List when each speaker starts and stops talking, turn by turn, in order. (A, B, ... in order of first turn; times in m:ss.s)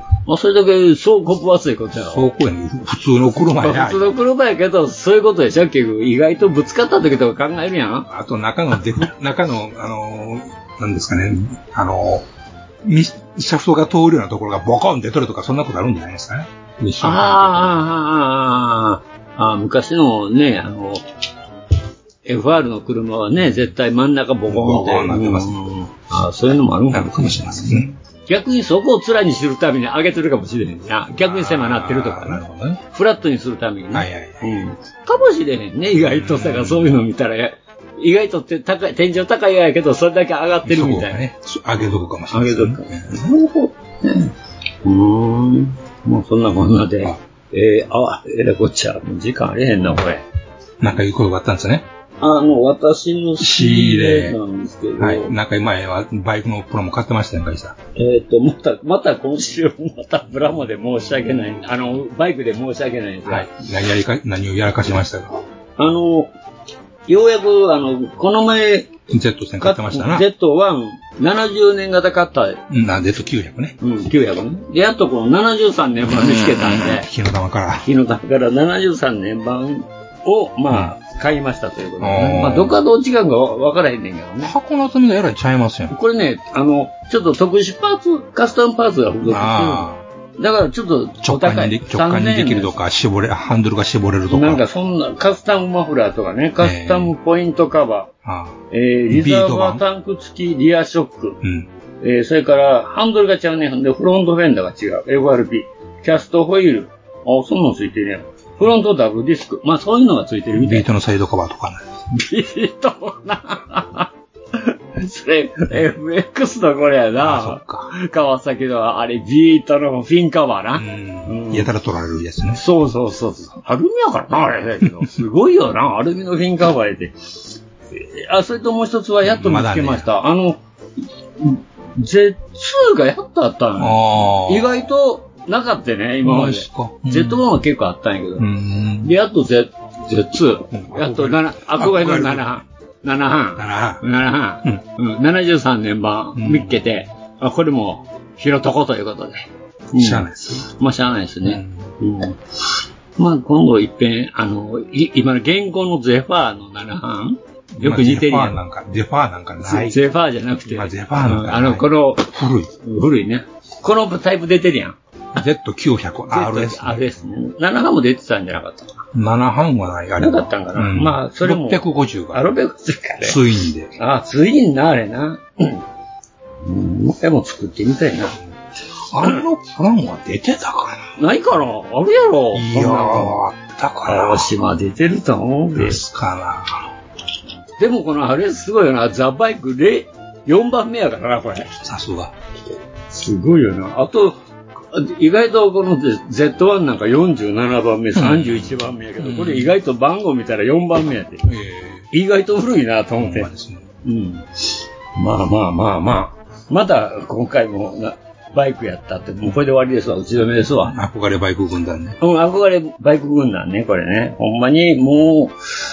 0:00.3-0:02.2 A
0:02.0-0:04.1 B
0:03.5-0:08.1 A
0:08.1-0:12.2 B
0:12.8-0:17.8 B
0:17.0-0:21.0 A
0:22.2-0:41.2 A
0:24.5-0:25.7 B
0:26.9-0:27.9 B
0:31.2-0:32.8 B
0:33.9-0:34.6 B
0:36.0-0:36.9 B
0:40.6-0:43.2 B
0:41.8-0:50.2 A
0:50.8-0:51.8 B
0:52.2-0:55.4 A
0:53.4-0:54.4 B
0:55.0-0:57.8 B
0:58.0-1:03.5 A
1:03.2-1:05.4 B
1:05.8-1:06.3 A
1:07.1-1:08.9 A
1:09.1-1:10.3 B
1:09.6-1:12.6 A
1:12.7-1:13.8 B
1:13.8-1:17.1 A
1:16.5-1:17.8 B
1:17.8-1:24.5 A
1:20.7-1:20.9 B
1:22.0-1:22.8 B
1:24.4-1:25.9 B
1:25.9-1:29.9 A
1:29.2-1:30.0 B
1:30.4-1:32.7 A
1:31.2-1:34.6 B
1:34.3-1:38.1 A
1:36.6-1:37.1 B
1:38.2-1:38.6 B
1:38.7-1:41.4 A
1:39.1-1:39.8 B
1:41.4-1:41.7 B
1:42.0-1:50.8 A
1:50.5-1:51.9 B
1:52.1-2:01.7 A
1:57.2-1:57.9 B
2:00.8-2:02.6 B
2:02.5-2:07.2 A
2:07.9-2:10.6 A
2:09.2-2:10.1 B
2:11.4-2:18.5 A
2:13.8-2:14.7 B
2:16.2-2:17.4 B
2:18.4-2:19.1 B
2:19.0-2:32.4 A
2:20.7-2:22.6 B
2:23.6-2:24.0 B
2:26.3-2:26.8 B
2:30.0-2:30.7 B
2:31.4-2:31.9 B
2:33.2-2:38.6 A
2:37.8-2:40.0 B
2:39.6-2:45.0 A
2:40.6-2:42.7 B
2:45.3-2:47.1 B
2:46.3-2:49.0 A
2:49.1-2:52.5 B
2:50.2-2:53.4 A
2:53.2-2:53.9 B
2:54.0-2:55.8 A
2:56.6-2:58.4 A
2:59.1-3:01.1 B
3:01.2-3:03.4 A
3:02.5-3:04.5 B
3:04.0-3:06.0 A
3:05.7-3:06.9 B
3:07.8-3:11.7 A
3:11.7-3:12.3 B
3:13.1-3:14.4 A
3:14.9-3:21.5 A
3:18.1-3:19.7 B
3:21.4-3:22.1 B
3:22.1-3:23.5 A
3:23.2-3:23.9 B
3:24.0-3:31.0 A
3:30.8-3:32.2 B
3:32.2-3:35.6 A